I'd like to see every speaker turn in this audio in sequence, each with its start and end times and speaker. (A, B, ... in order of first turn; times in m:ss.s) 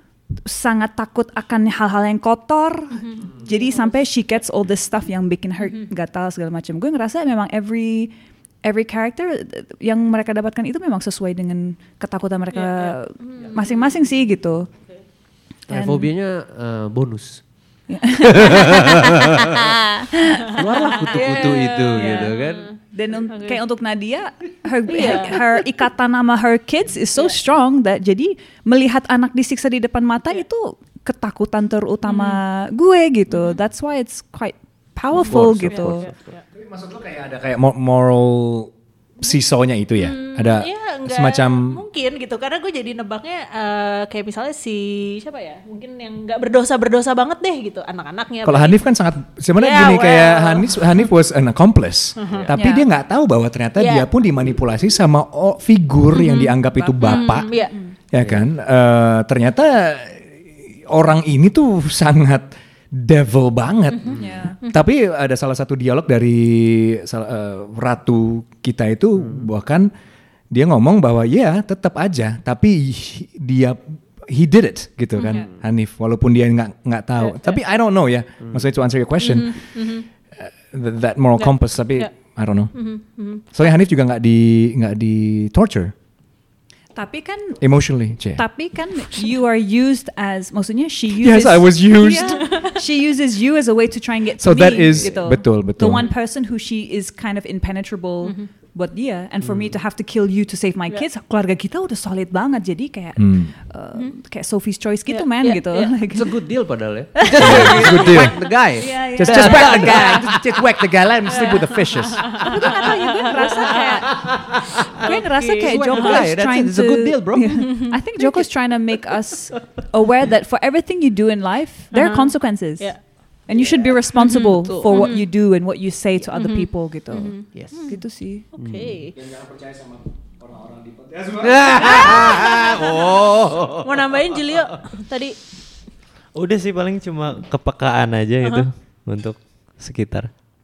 0:00.4-0:08.1 A
0:03.0-0:03.9 B
0:08.6-0:14.7 A
0:12.5-0:14.0 B
0:15.7-0:17.4 C
0:15.7-0:16.1 A
0:17.9-0:22.2 A
0:18.4-0:19.5 C
0:20.6-0:22.7 C
0:20.7-0:23.6 B
0:22.8-0:36.1 A
0:24.9-0:25.4 B
0:32.0-0:32.4 B
0:33.3-0:33.6 B
0:35.1-0:36.3 C
0:35.7-0:36.4 B
0:36.5-0:41.8 D
0:40.0-0:48.8 B
0:48.4-0:57.5 D
0:49.6-0:50.8 B
0:52.2-0:52.5 B
0:52.3-0:52.5 C
0:52.5-0:52.8 A
0:53.8-0:54.1 B
0:56.1-0:57.8 B
0:56.7-0:57.9 A
0:58.1-1:00.4 D
0:58.2-0:58.5 C
1:00.9-1:09.9 D
1:03.9-1:04.8 B
1:04.1-1:04.6 A
1:09.2-1:09.4 C
1:10.5-1:19.8 D
1:15.2-1:15.5 B
1:17.2-1:17.6 B
1:19.2-1:20.1 B
1:20.4-1:22.9 D
1:21.4-1:22.1 B
1:22.7-1:23.4 B
1:23.4-1:25.9 D
1:26.9-1:27.6 A
1:27.6-1:28.5 D
1:28.3-1:46.3 A
1:31.2-1:32.6 D
1:34.4-1:36.1 D
1:38.2-1:38.5 B
1:39.4-1:39.8 C
1:43.2-1:43.5 D
1:45.1-1:45.9 B
1:46.1-1:50.7 C
1:47.3-1:48.2 A
1:47.4-1:48.4 D
1:48.8-1:50.3 A
1:49.1-1:52.4 D
1:51.3-1:53.8 B
1:52.4-1:54.2 A
1:53.6-1:58.4 C
1:55.0-2:08.4 A
1:57.7-1:58.0 B
2:01.9-2:03.4 B
2:04.1-2:05.2 B
2:04.6-2:05.1 C
2:06.3-2:09.2 B
2:07.5-2:07.9 C
2:08.6-2:08.9 C
2:09.1-2:12.1 D
2:11.4-2:14.3 C
2:11.7-2:13.0 B
2:13.8-2:15.4 B
2:16.3-2:20.3 E
2:18.4-2:18.7 B